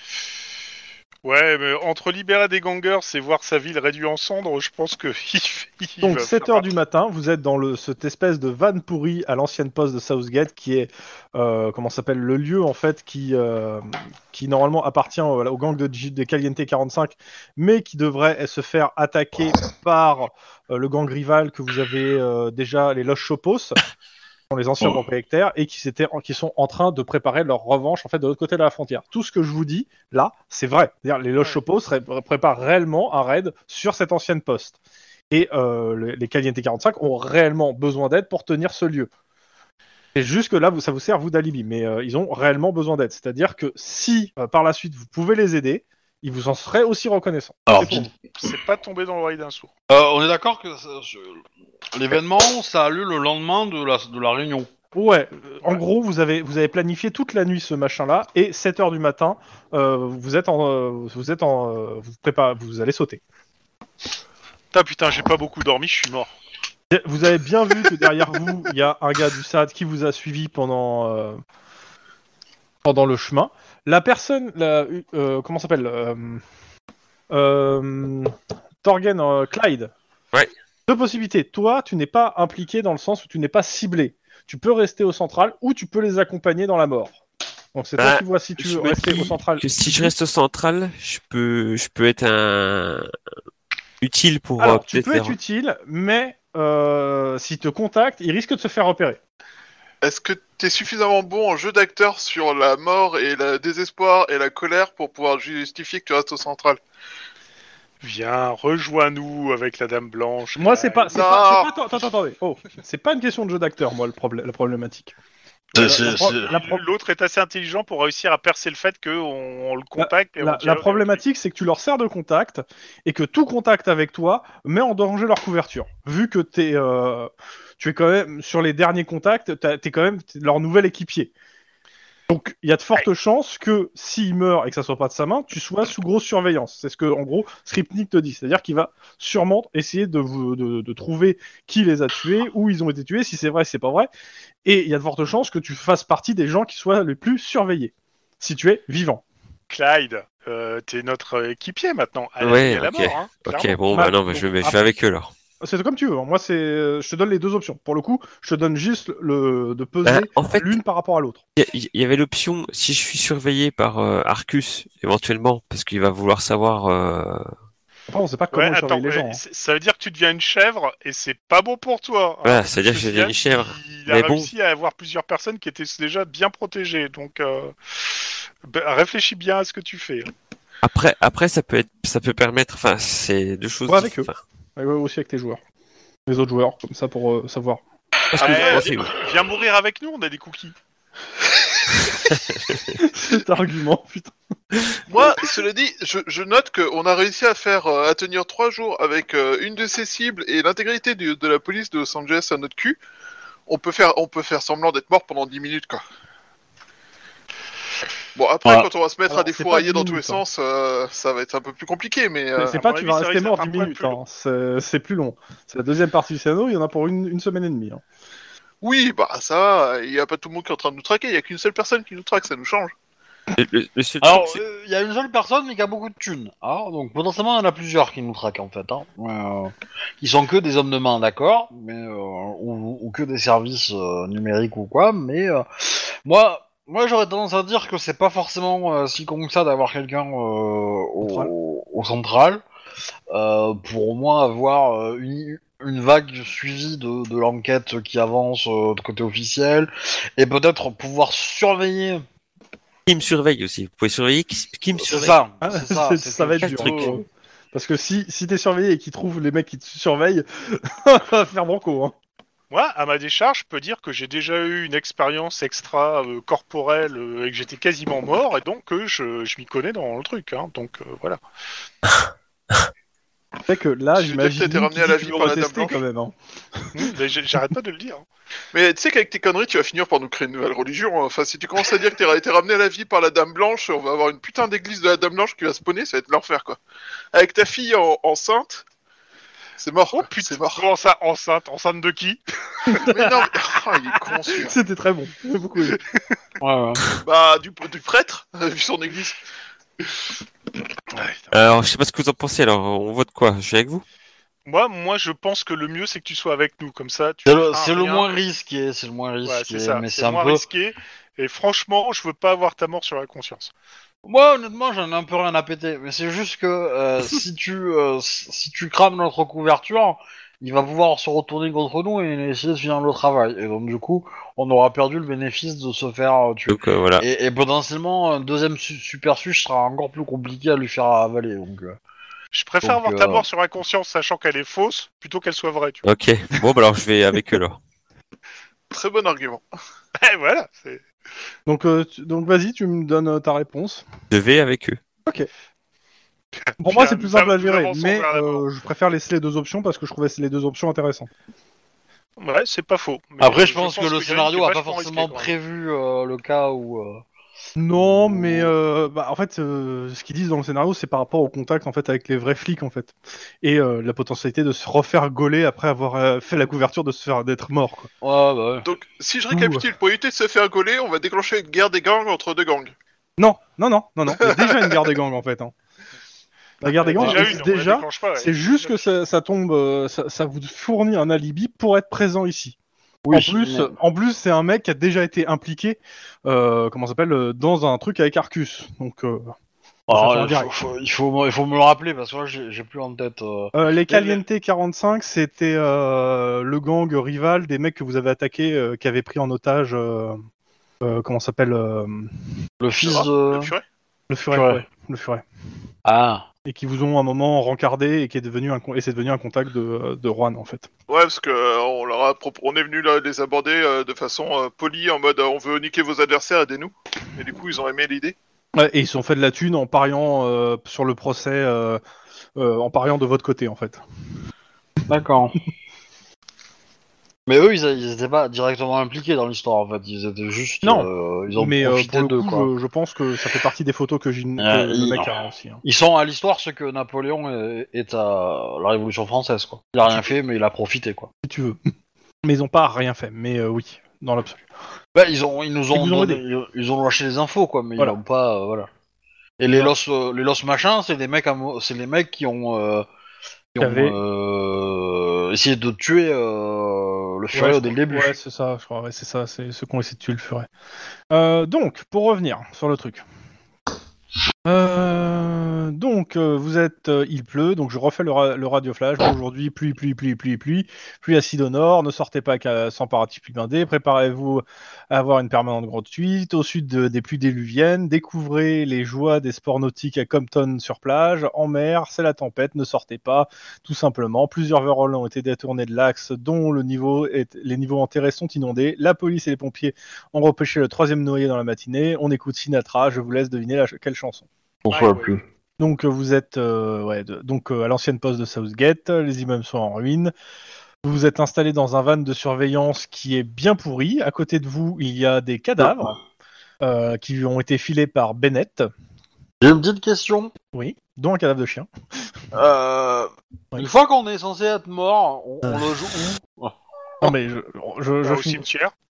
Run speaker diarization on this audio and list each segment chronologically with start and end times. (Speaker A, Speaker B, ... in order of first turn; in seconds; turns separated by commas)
Speaker A: 1.2-6.7, Speaker B: 6.0-23.8, Speaker B: 24.5-34.8, Speaker B: 35.3-39.1, Speaker B: 40.1-48.1, Speaker C: 47.7-48.1, Speaker A: 48.4-49.7, Speaker C: 49.9-54.7, Speaker B: 54.9-63.2, Speaker A: 64.7-66.3, Speaker B: 66.9-71.4, Speaker B: 72.8-76.4, Speaker B: 77.3-79.9, Speaker B: 80.9-87.2, Speaker B: 87.7-90.1, Speaker D: 88.0-93.1, Speaker D: 94.0-95.4, Speaker B: 94.6-99.2, Speaker E: 100.0-106.8, Speaker A: 108.0-111.2, Speaker B: 110.6-115.1, Speaker E: 111.1-111.7, Speaker C: 115.7-116.5, Speaker B: 115.8-116.8, Speaker A: 115.8-121.2, Speaker B: 120.0-131.3, Speaker B: 132.3-144.1, Speaker B: 144.7-149.2, Speaker A: 149.7-153.8, Speaker D: 152.4-155.3, Speaker B: 153.9-154.8, Speaker B: 155.6-161.4, Speaker D: 160.1-160.8, Speaker D: 161.6-167.5, Speaker B: 168.1-169.4, Speaker A: 168.5-180.3, Speaker D: 172.4-174.5, Speaker D: 180.8-184.4, Speaker B: 183.9-185.6, Speaker B: 186.3-187.8, Speaker D: 188.3-189.2, Speaker A: 188.4-190.8, Speaker E: 188.4-188.9, Speaker D: 192.3-192.9, Speaker B: 193.0-194.3, Speaker E: 195.1-203.0, Speaker E: 203.7-206.0, Speaker E: 208.3-212.8, Speaker B: 209.3-210.4, Speaker B: 212.6-218.0, Speaker A: 212.7-214.2, Speaker E: 218.8-222.9, Speaker D: 223.5-224.6, Speaker C: 224.2-242.6, Speaker B: 241.2-241.5, Speaker C: 243.3-252.2, Speaker D: 253.1-255.4, Speaker C: 255.0-257.2, Speaker B: 255.6-262.1, Speaker D: 256.6-257.1, Speaker A: 262.7-271.4, Speaker B: 273.7-277.1, Speaker E: 274.2-276.0, Speaker A: 276.9-278.2, Speaker E: 278.7-286.8, Speaker E: 287.3-288.8, Speaker E: 289.8-290.9, Speaker A: 290.1-292.4, Speaker B: 292.9-293.5, Speaker E: 292.9-294.8, Speaker B: 294.5-296.0, Speaker C: 296.6-297.1, Speaker E: 297.2-299.4, Speaker B: 301.2-301.5, Speaker D: 301.5-304.0, Speaker A: 304.7-308.3, Speaker C: 307.5-310.6, Speaker A: 309.4-313.7, Speaker C: 314.2-332.0, Speaker D: 326.7-327.2, Speaker A: 332.5-336.1, Speaker C: 332.8-333.5, Speaker D: 336.1-337.8, Speaker E: 338.9-339.6, Speaker A: 340.2-341.0, Speaker B: 341.7-344.0, Speaker D: 344.3-345.0, Speaker B: 346.8-351.3, Speaker A: 346.8-348.6, Speaker A: 352.4-355.5, Speaker C: 353.4-357.2, Speaker B: 357.8-368.1, Speaker C: 358.0-358.7, Speaker C: 368.2-368.9, Speaker E: 368.8-372.9, Speaker B: 369.5-369.9, Speaker B: 373.4-375.7, Speaker E: 374.4-375.0, Speaker B: 376.8-382.8, Speaker C: 377.0-377.6, Speaker A: 377.1-379.1, Speaker C: 383.2-383.9, Speaker B: 383.3-389.5, Speaker B: 390.1-390.8, Speaker C: 390.1-394.4, Speaker B: 393.7-400.4, Speaker B: 401.0-402.4, Speaker C: 402.8-403.7, Speaker E: 403.0-403.8, Speaker B: 404.3-405.4, Speaker C: 404.5-404.8, Speaker C: 406.1-406.5, Speaker B: 406.7-410.9, Speaker E: 411.1-418.4, Speaker B: 418.8-422.0, Speaker B: 422.6-424.0, Speaker C: 425.1-425.6, Speaker C: 427.5-432.7, Speaker B: 430.8-435.8, Speaker C: 434.6-441.3, Speaker B: 441.4-441.8, Speaker B: 442.4-444.6, Speaker C: 445.1-448.9, Speaker B: 445.9-446.4, Speaker C: 449.6-453.1, Speaker C: 453.7-458.4, Speaker B: 453.8-454.2, Speaker B: 457.5-460.7, Speaker B: 461.3-463.2, Speaker B: 464.6-494.5, Speaker C: 494.8-495.4, Speaker A: 494.9-495.4, Speaker B: 495.8-500.3, Speaker B: 501.0-506.2, Speaker C: 505.8-506.2, Speaker B: 506.8-508.9, Speaker C: 509.6-510.5, Speaker B: 510.7-511.9, Speaker C: 512.5-516.8, Speaker B: 517.2-518.6, Speaker A: 518.2-518.9